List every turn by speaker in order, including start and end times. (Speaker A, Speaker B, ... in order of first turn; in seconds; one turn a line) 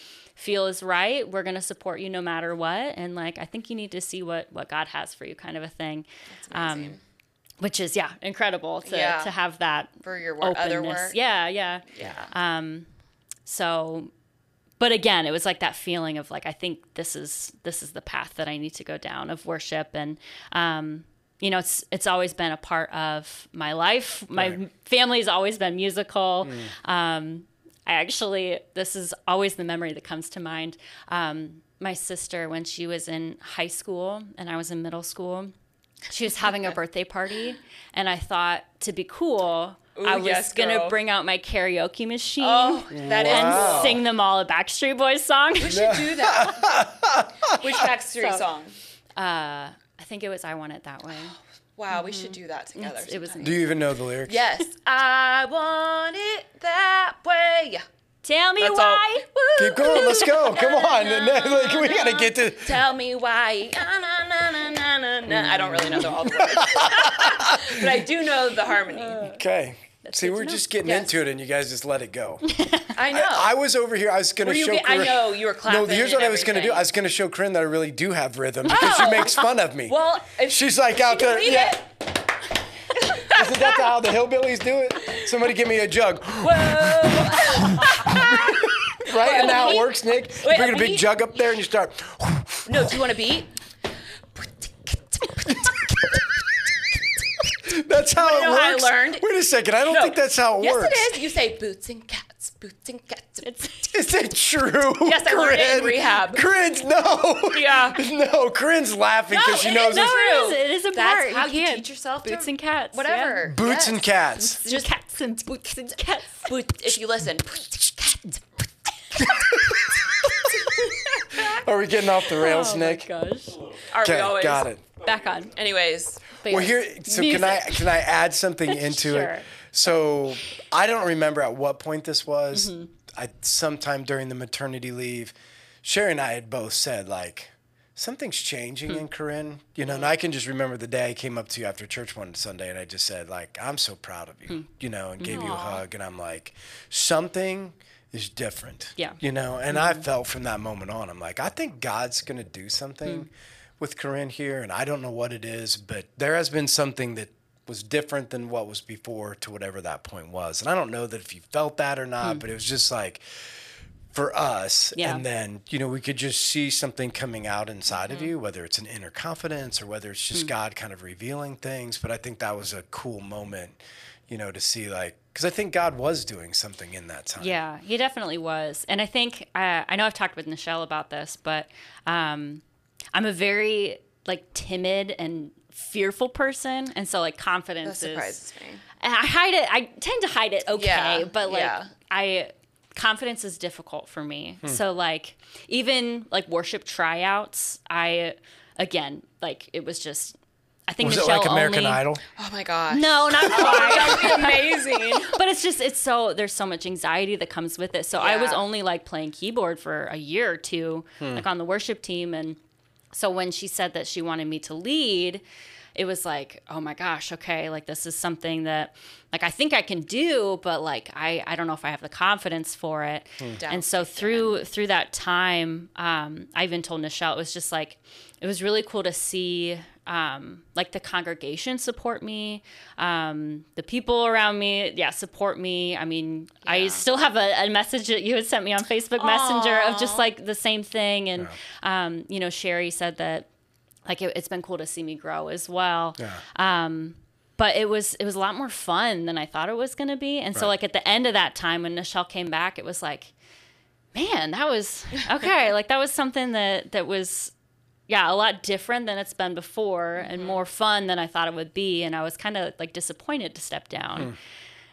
Speaker A: 0.4-7.0
Speaker B: 6.4-7.0
Speaker A: 7.6-12.9
Speaker B: 8.8-9.3
Speaker B: 10.0-11.2
Speaker B: 11.9-12.3
Speaker A: 13.4-14.1
Speaker A: 14.8-35.5
Speaker C: 24.3-24.6
Speaker C: 26.4-26.7
Speaker A: 36.1-46.0
Speaker B: 40.0-41.0
Speaker B: 42.4-44.0
Speaker C: 42.9-44.0
Speaker B: 45.6-46.7
Speaker C: 45.7-47.8
Speaker B: 47.5-48.7
Speaker A: 49.2-51.4
Speaker B: 51.8-53.7
Speaker A: 51.9-53.7
Speaker C: 53.4-54.4
Speaker B: 54.2-57.8
Speaker A: 58.2-60.6
Speaker B: 58.6-59.2
Speaker C: 59.6-62.8
Speaker B: 60.2-69.3
Speaker C: 65.3-68.0
Speaker A: 69.0-69.3
Speaker C: 69.2-72.5
Speaker A: 70.0-70.7
Speaker B: 70.8-71.2
Speaker A: 72.5-72.9
Speaker B: 72.9-73.5
Speaker C: 73.1-81.9
Speaker B: 74.4-76.8
Speaker B: 78.7-81.9
Speaker A: 78.7-79.1
Speaker B: 83.0-83.5
Speaker C: 83.2-93.0
Speaker B: 86.4-91.0
Speaker B: 92.7-93.5
Speaker B: 94.4-95.8
Speaker C: 95.4-96.2
Speaker C: 97.4-101.1
Speaker B: 98.2-99.2
Speaker B: 99.9-103.5
Speaker A: 103.4-103.9
Speaker C: 103.9-110.2
Speaker B: 105.0-106.5
Speaker B: 107.5-108.0
Speaker B: 109.3-114.0
Speaker A: 109.7-113.4
Speaker C: 113.4-114.6
Speaker A: 114.4-116.5
Speaker B: 114.6-114.9
Speaker B: 116.4-118.4
Speaker B: 119.2-121.4
Speaker C: 119.2-120.5
Speaker C: 121.3-123.1
Speaker A: 122.3-123.7
Speaker B: 123.9-124.7
Speaker C: 124.0-124.8
Speaker A: 125.0-125.5
Speaker B: 125.5-126.4
Speaker A: 126.4-128.0
Speaker C: 126.4-163.2
Speaker A: 128.7-129.5
Speaker A: 132.5-132.9
Speaker B: 139.8-140.1
Speaker A: 145.2-145.5
Speaker B: 145.3-145.8
Speaker A: 149.7-150.0
Speaker C: 164.1-177.6
Speaker A: 164.9-165.2
Speaker A: 177.4-182.6
Speaker A: 183.1-188.4
Speaker B: 187.8-188.8
Speaker A: 189.0-200.3
Speaker B: 190.7-191.9
Speaker A: 200.9-202.0
Speaker C: 201.0-202.2
Speaker B: 202.3-205.3
Speaker A: 202.9-212.6
Speaker B: 208.2-208.6
Speaker C: 211.2-211.4
Speaker A: 213.1-215.4
Speaker A: 215.9-243.5
Speaker B: 223.6-224.6
Speaker B: 236.7-237.0
Speaker B: 239.2-240.2
Speaker A: 244.1-253.3
Speaker C: 246.2-246.4
Speaker A: 254.1-257.5
Speaker A: 258.1-264.3
Speaker B: 260.2-260.6